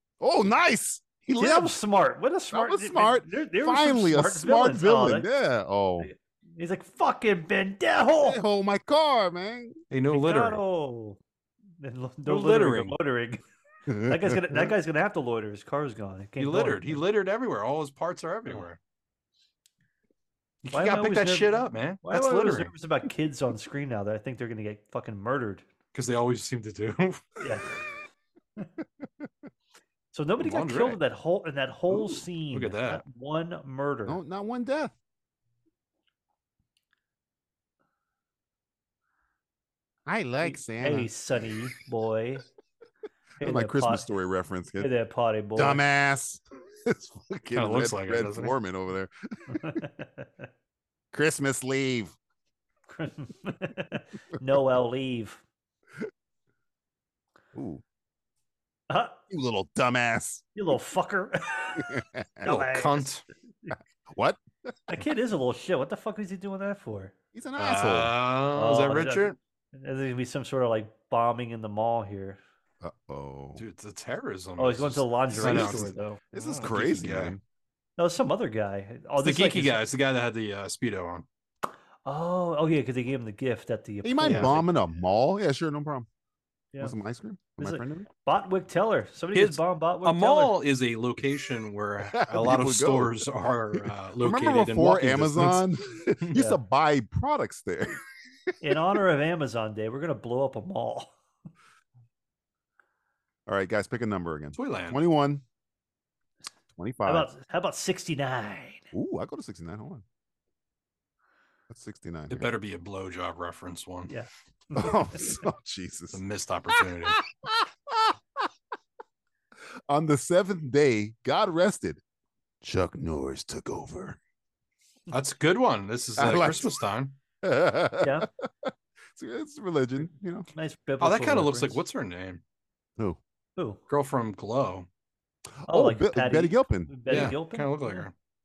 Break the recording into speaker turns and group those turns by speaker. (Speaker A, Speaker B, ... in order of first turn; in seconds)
Speaker A: 0.2-1.7, 2.5-6.1, 8.2-9.8, 13.9-14.7, 34.1-35.0, 40.1-41.5, 43.4-44.9, 45.5-49.8, 51.1-52.1, 57.5-57.8, 59.3-60.5, 61.8-62.5, 64.1-64.7, 67.3-68.1, 72.8-73.6, 75.4-77.4, 84.0-86.1, 86.8-88.1, 92.1-98.0, 103.5-105.4, 106.7-107.3, 108.9-110.0, 111.7-112.5, 114.8-116.2, 116.8-118.2, 119.9-122.0, 122.6-124.2, 126.2-126.7, 127.4-130.5, 135.6-137.4
Speaker B: 1.4-5.3, 6.0-8.4, 10.1-11.2, 11.8-13.4, 14.0-17.0, 20.7-25.6, 27.4-27.7, 30.1-34.2, 40.4-42.4, 43.4-44.1, 44.8-45.8, 49.5-50.5, 52.9-55.4, 58.9-59.2, 60.6-63.1, 64.9-67.1, 68.6-72.4, 74.6-76.2, 78.0-79.8, 82.0-84.7, 87.6-90.6, 96.3-96.6, 98.6-101.1, 107.1-108.9, 114.1-115.0, 128.0-128.3, 130.5-131.8, 135.7-138.1
Speaker C: 9.9-10.6, 12.3-13.0, 16.4-18.8, 20.6-22.7, 25.9-27.5, 30.4-31.0, 31.9-33.0, 47.5-48.5, 62.4-63.2, 67.6-69.4, 73.6-77.4, 79.2-81.3, 84.3-84.6, 89.3-95.7, 104.5-105.0, 112.3-114.1, 116.1-117.2, 125.1-127.2, 131.0-132.4, 133.9-134.9, 137.1-138.1